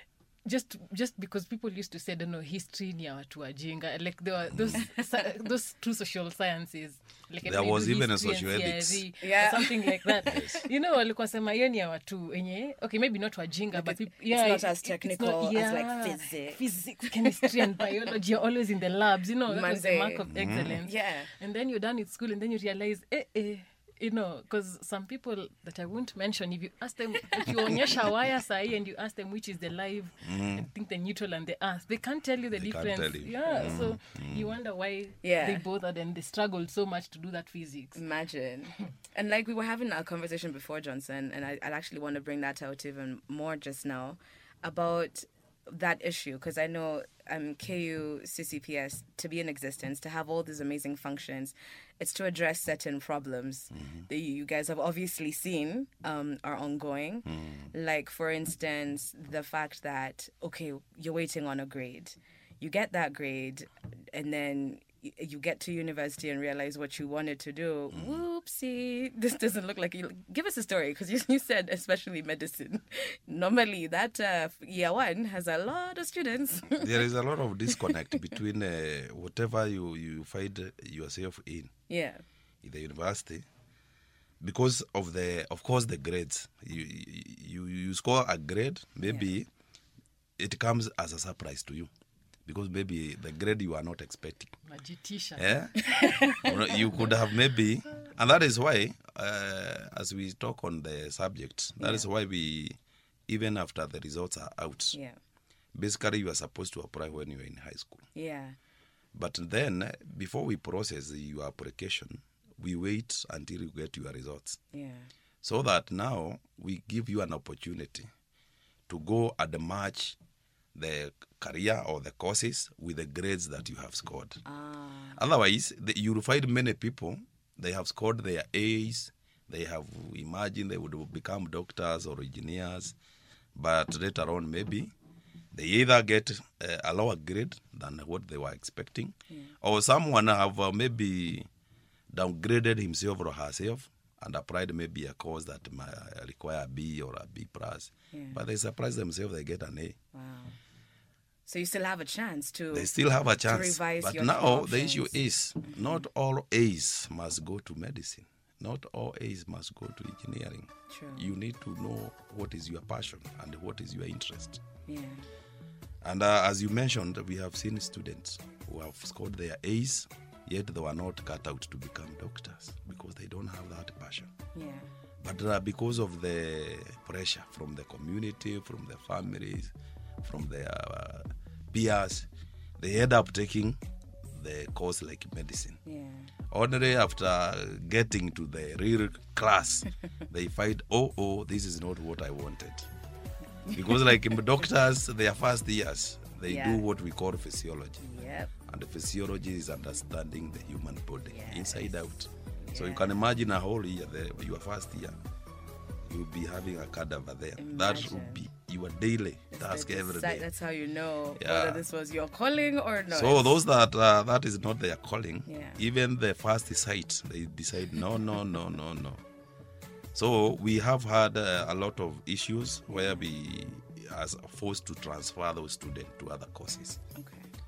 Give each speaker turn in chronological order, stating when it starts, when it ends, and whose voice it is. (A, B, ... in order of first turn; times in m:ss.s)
0:00.4-0:38.0 A
0:07.4-0:09.0 B
0:09.2-0:10.6 C
0:10.3-0:10.6 B
0:13.7-0:18.1 C
0:19.5-0:20.3 C
0:20.3-0:20.8 B
0:20.8-0:21.3 C
0:30.2-0:30.7 B
0:32.5-0:34.5 B
0:35.2-0:35.6 C
0:37.9-1:17.0 C
0:53.7-0:54.1 B
0:57.2-0:57.7 B
1:07.9-1:08.2 B
1:16.8-1:21.7 B
1:21.9-1:22.2 C
1:22.6-1:23.4 B
1:24.4-1:29.5 B
1:30.4-1:31.9 B
1:32.5-1:34.5 B
1:34.6-1:36.4 A
1:35.4-1:35.8 B
1:35.8-1:37.1 C
1:36.4-1:42.8 B
1:41.8-1:42.1 C
1:43.3-1:45.0 B
1:45.7-1:48.1 B
1:48.1-1:48.6 C
1:49.1-1:54.6 B
1:54.7-1:55.1 C
1:55.4-1:58.1 B
1:58.9-2:00.2 B
2:00.8-2:04.4 B
2:04.5-2:05.2 C
2:05.2-2:13.0 B
2:13.6-2:14.9 B
2:15.5-2:21.5 B
2:19.3-2:19.5 C
2:22.1-2:30.0 B
2:28.1-2:28.4 C
2:30.1-2:30.6 C
2:31.5-2:32.9 C
2:32.7-2:44.6 B
2:33.5-2:36.0 C
2:40.9-2:41.3 C
2:44.9-2:45.3 C
2:46.0-2:54.3 B
2:54.5-2:54.9 C
2:55.2-3:02.3 B
3:02.8-3:03.8 B
3:04.3-3:05.8 B
3:05.8-3:06.3 C
3:06.5-3:12.9 B
3:13.6-3:14.4 C
3:13.7-3:18.0 B
3:16.5-3:16.8 C
3:18.0-3:18.5 C
3:18.6-3:25.2 B
3:21.3-3:22.0 C
3:22.6-3:23.2 C
3:26.0-3:30.5 B
3:27.6-3:28.4 C
3:29.5-3:33.6 C
3:31.4-3:31.8 B
3:33.1-3:39.2 B
3:35.5-3:35.8 C
3:40.1-3:47.0 B
3:42.9-3:43.2 C
3:47.1-3:47.5 C